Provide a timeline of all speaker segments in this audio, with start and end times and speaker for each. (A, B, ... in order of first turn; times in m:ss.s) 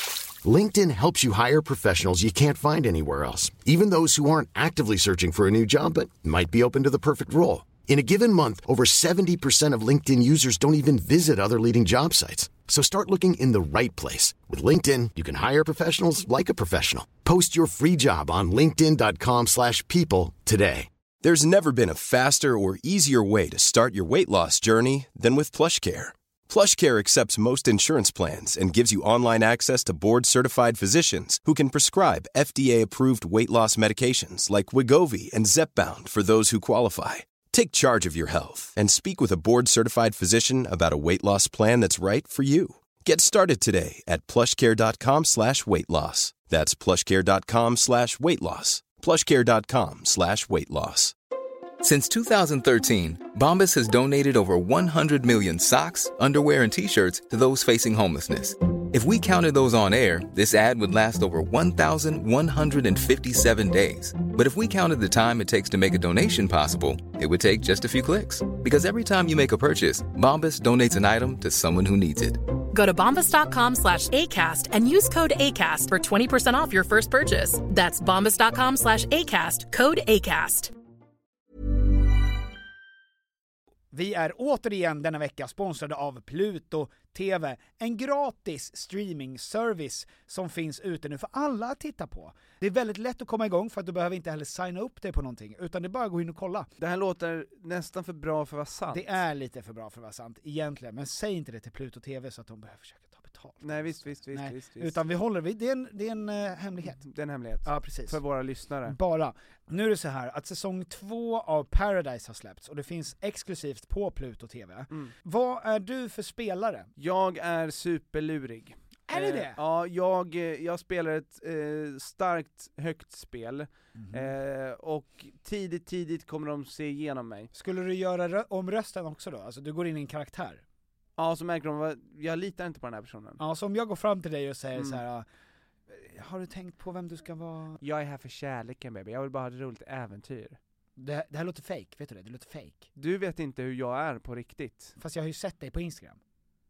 0:00.4-0:20.9 A
0:21.2-0:51.1 B
0:51.8-1:12.4 C
1:12.7-1:20.7 D
1:23.9-1:36.7 E
1:36.8-1:39.2 F
1:38.9-1:47.0 E
1:43.6-1:45.0 F
1:47.0-1:49.0 F
1:47.6-1:48.2 E
1:48.8-1:56.9 E
1:57.0-2:07.5 F
1:59.1-1:59.6 E
2:04.0-2:04.3 E
2:07.5-2:10.6 E
2:11.2-2:13.4 F
2:13.4-2:15.2 E
2:14.7-2:15.0 F
2:15.9-2:17.8 E
2:17.8-2:20.6 F
2:21.0-2:22.8 E
2:22.9-2:24.9 F
2:25.0-2:26.2 E